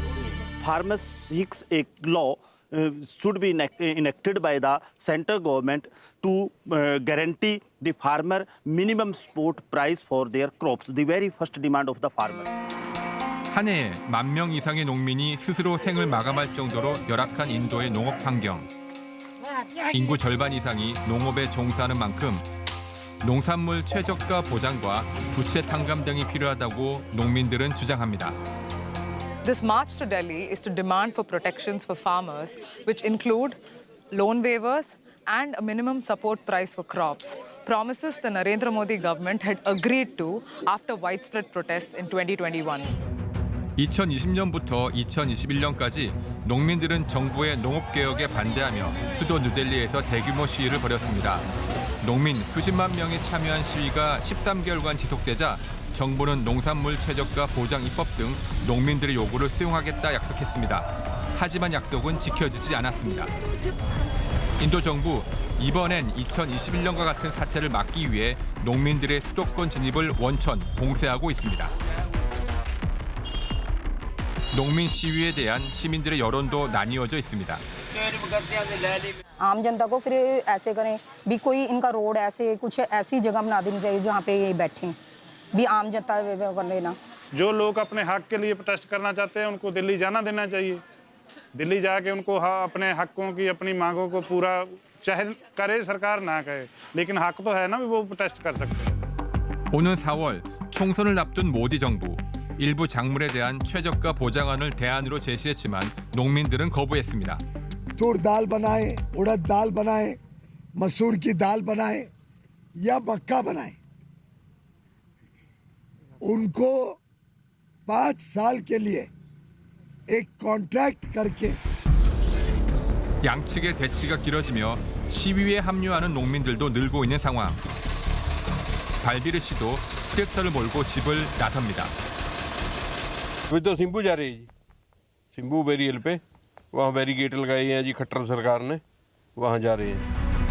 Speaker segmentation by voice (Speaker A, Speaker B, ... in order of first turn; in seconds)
Speaker A: 0.6-12.5
Speaker B: 13.5-18.7, 19.9-22.4, 23.2-28.4, 43.8-51.5, 52.0-63.3, 64.6-71.7, 74.5-77.6, 99.7-107.4, 123.2-127.6, 129.0-131.9
Speaker C: 29.4-33.6, 34.1-42.9
Speaker D: 79.4-85.0, 85.5-87.0
Speaker E: 87.3-90.8, 91.6-98.9
Speaker F: 108.0-110.2, 110.8-112.1, 112.8-113.8, 116.2-117.0, 117.9-119.1, 120.1-121.6
Speaker G: 133.5-134.5, 135.3-138.8, 139.3-140.1